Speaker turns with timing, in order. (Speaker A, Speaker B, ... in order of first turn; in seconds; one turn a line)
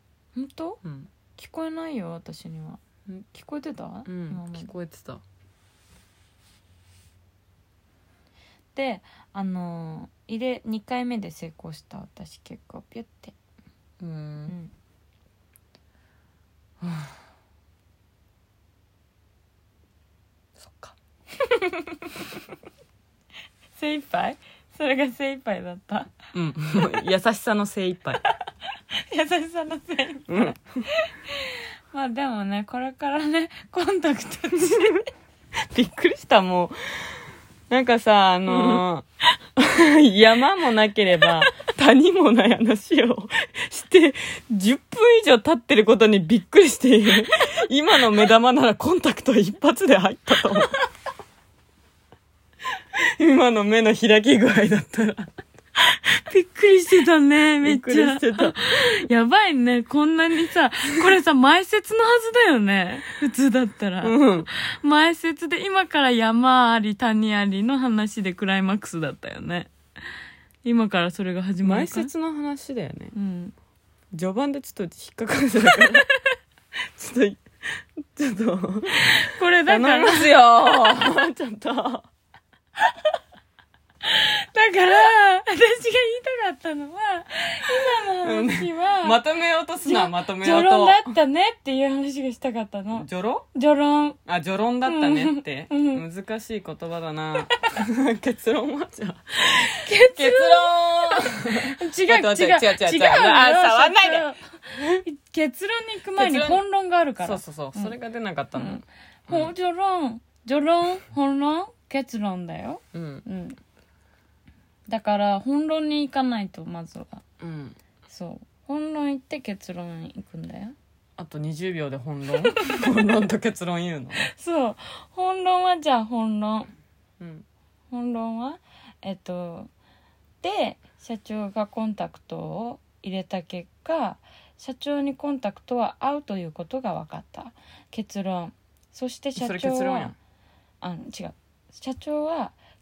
Speaker A: 0.3-0.8
Speaker B: 0.8-1.1
Speaker A: 1.4-4.7
Speaker B: 4.1-5.2
Speaker A: 8.8-13.3
Speaker B: 14.0-14.6
Speaker B: 16.8-17.1
Speaker B: 20.6-21.0
Speaker A: 23.8-26.1
Speaker B: 26.3-28.2
Speaker A: 29.1-35.1
Speaker B: 30.3-30.9
Speaker B: 35.6-39.0
Speaker A: 38.5-38.8
Speaker B: 39.6-50.8
Speaker B: 53.2-55.3
Speaker A: 56.2-69.7
Speaker B: 57.6-59.0
Speaker B: 64.0-64.5
Speaker A: 70.6-72.1
Speaker B: 71.6-73.1
Speaker A: 73.1-73.5
Speaker B: 74.1-76.1
Speaker B: 77.0-82.1
Speaker A: 79.0-81.0
Speaker A: 84.0-89.2
Speaker B: 88.2-91.2
Speaker A: 89.8-94.2
Speaker B: 93.0-93.5
Speaker B: 94.3-105.0
Speaker A: 94.8-96.0
Speaker A: 99.8-108.0
Speaker B: 106.2-106.6
Speaker B: 107.2-109.5
Speaker A: 108.5-113.6
Speaker B: 112.9-113.3
Speaker A: 114.9-117.2
Speaker B: 117.4-117.8
Speaker A: 118.1-120.8
Speaker B: 121.2-124.3
Speaker A: 124.3-126.7
Speaker B: 127.2-127.5
Speaker A: 127.9-129.7
Speaker A: 130.4-140.1
Speaker B: 139.4-140.2
Speaker A: 140.8-142.6